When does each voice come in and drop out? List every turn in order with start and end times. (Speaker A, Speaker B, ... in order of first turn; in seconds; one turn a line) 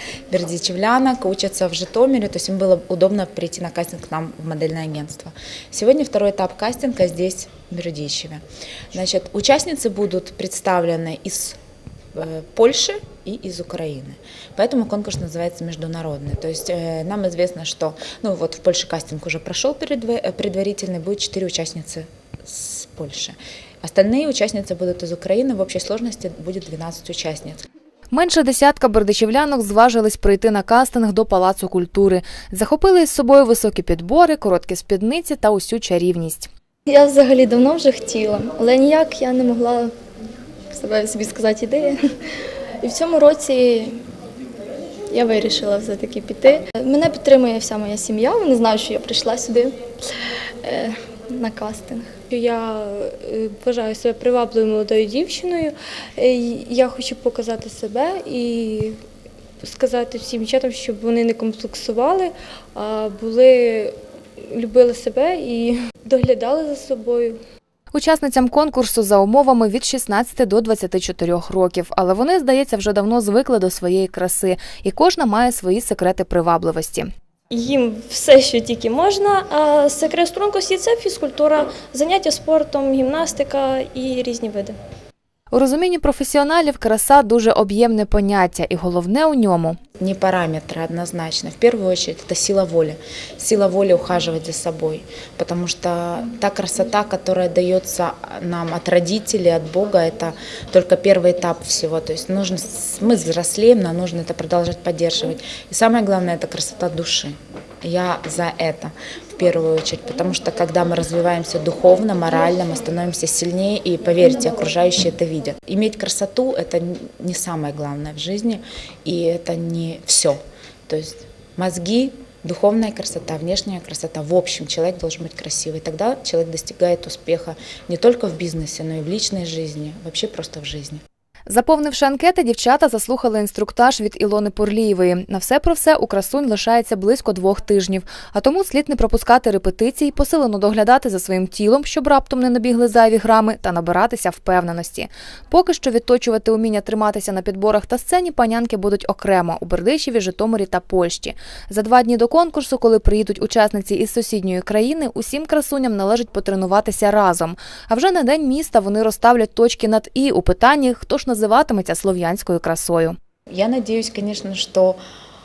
Speaker A: 0.3-11.6
Speaker A: 12.1-27.6
Speaker B: 28.1-36.5
Speaker C: 36.9-39.9
Speaker C: 40.7-44.0
Speaker C: 45.1-49.8
Speaker C: 50.6-52.1
Speaker D: 52.3-59.0
Speaker D: 59.6-67.4
Speaker B: 67.9-77.1
Speaker E: 77.5-84.8
Speaker B: 85.5-89.8
Speaker A: 90.0-131.0
Speaker B: 131.5-163.2
Speaker A: 163.5-165.0